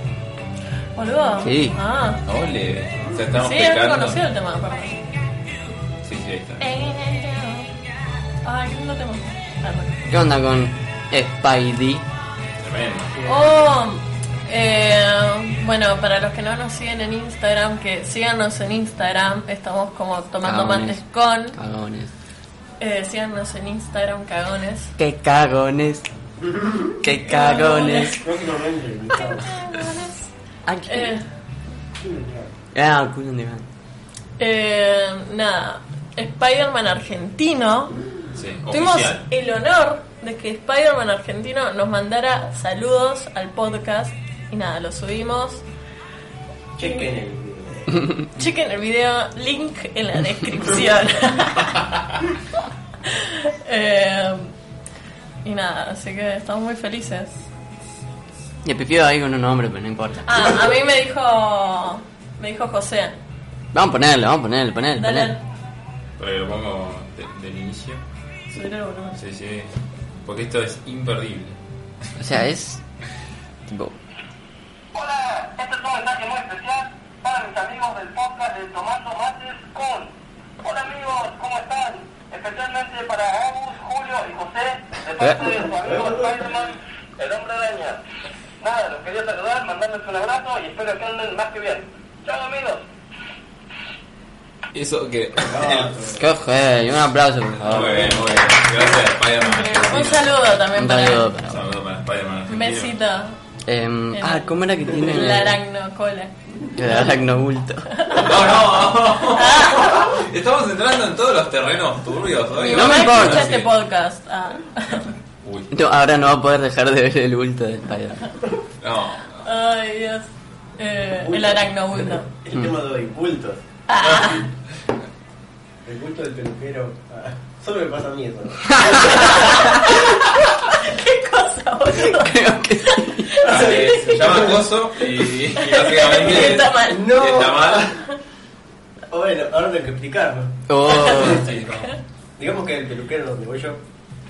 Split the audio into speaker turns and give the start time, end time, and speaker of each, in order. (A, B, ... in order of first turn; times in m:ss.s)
0:01.0-0:02.2 A
0:01.4-0:01.8 B
0:02.3-0:04.2 C
0:03.3-0:05.0 A
0:06.0-0:06.6 C
0:06.6-0:07.7 A
0:08.4-0:10.0 A
0:10.1-0:12.1 B
0:12.6-0:13.2 C
0:13.2-0:21.6 A
0:20.4-0:22.1 B
0:22.8-0:24.9 A
0:25.0-0:26.1 B
0:26.4-0:27.0 D
0:27.0-0:28.2 B
0:27.2-0:28.2 A
0:28.0-0:29.5 D
0:29.2-0:30.2 A
0:30.7-0:31.1 B
0:30.9-0:31.2 A
0:32.0-0:32.5 D
0:32.7-0:33.7 B
0:34.4-0:37.9 A
0:38.4-0:39.2 C
0:38.7-0:45.6 A
0:46.8-0:48.1 D
0:48.4-0:51.8 A
0:53.0-0:54.5 A
0:55.4-0:57.3 A
0:58.6-1:00.6 B
1:00.2-1:03.2 A
1:03.7-1:05.4 B
1:05.0-1:05.4 A
1:06.2-1:08.0 C
1:08.5-1:09.2 A
1:09.2-1:09.7 C
1:10.2-1:11.6 C
1:12.2-1:12.8 B
1:13.7-1:14.0 B
1:14.9-1:28.0 E
1:25.2-1:25.4 B
1:25.8-1:26.5 D
1:28.6-1:32.8 E
1:34.7-1:35.9 C
1:35.5-1:36.2 D
1:36.1-1:38.4 B
1:37.6-1:40.4 C
1:37.9-1:38.3 D
1:39.4-1:41.3 A
1:40.7-1:41.7 B
1:41.4-1:42.9 C
1:42.5-1:43.4 A
1:43.7-1:45.6 B
1:44.1-1:46.3 A
1:46.8-1:47.9 B
1:47.9-1:48.5 A
1:48.1-1:53.7 C
1:49.2-1:50.1 A
1:52.6-1:55.1 A
1:52.6-1:53.6 B
1:55.4-1:55.7 C
1:55.7-1:58.2 B
1:58.8-1:59.5 C
1:59.4-2:02.3 A
2:01.3-2:01.6 D
2:02.4-2:03.6 D
2:03.9-2:04.4 A
2:04.0-2:04.4 C
2:05.8-2:09.7 D
2:08.7-2:09.7 B
2:08.9-2:17.3 A
2:11.9-2:13.4 B
2:13.4-2:14.6 D
2:13.4-2:18.0 C
2:16.2-2:18.0 D
2:19.1-2:21.3 D
2:20.7-2:21.5 B
2:20.9-2:22.0 A
2:21.0-2:22.0 C
2:22.4-2:23.8 D